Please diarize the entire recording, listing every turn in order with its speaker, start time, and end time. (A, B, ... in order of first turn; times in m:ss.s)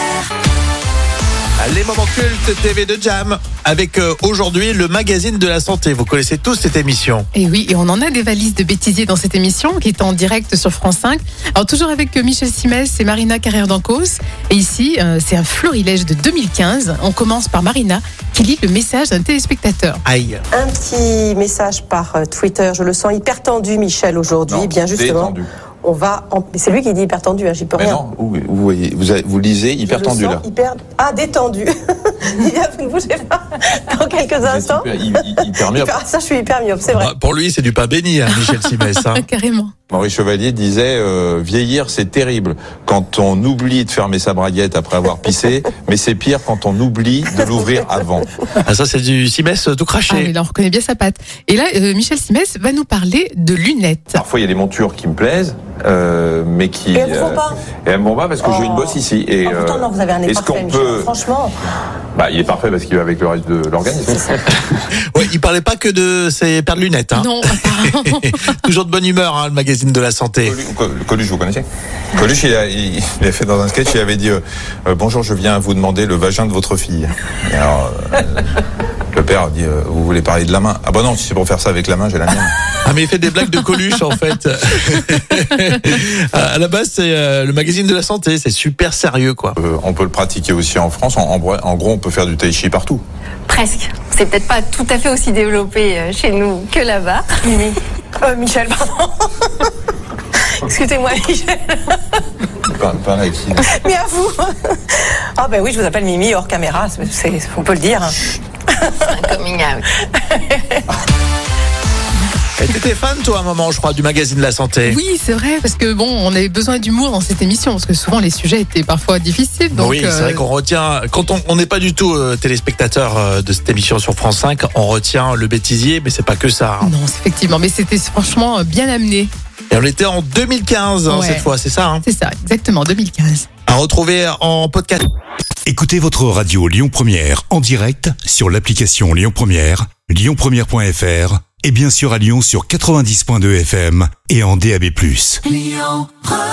0:01.6-0:07.3 A
0:07.3-0:20.0 B
0:20.0-0:20.4 A
0:20.5-0:28.0 C
0:24.5-0:25.5 D
0:27.8-0:30.4 D
0:29.9-0:37.1 C
0:34.4-0:36.0 D
0:36.9-0:39.2 A
0:39.0-0:39.7 B
0:39.9-0:48.4 D
0:48.6-0:50.3 A
0:50.1-0:54.2 B
0:54.1-1:01.1 D
0:56.9-0:57.6 C
0:58.4-1:01.5 C
1:02.1-1:04.7 D
1:05.0-1:10.6 A
1:07.2-1:08.4 B
1:10.4-1:18.4 D
1:19.1-1:22.5 D
1:22.8-1:29.5 A
1:29.6-1:33.0 D
1:33.5-1:37.4 E
1:37.4-1:39.7 C
1:40.6-1:41.5 E
1:42.6-1:43.7 D
1:43.6-1:49.1 C
1:49.0-1:49.9 E
1:50.2-1:50.8 C
1:52.6-1:55.0 A
1:54.8-2:00.4 B
1:59.7-2:06.9 A
2:06.8-2:09.3 B
2:09.7-2:12.0 A
2:11.1-2:11.5 B
2:12.0-2:13.5 B
2:13.7-2:15.1 A
2:15.6-2:25.4 F
2:25.7-2:26.0 E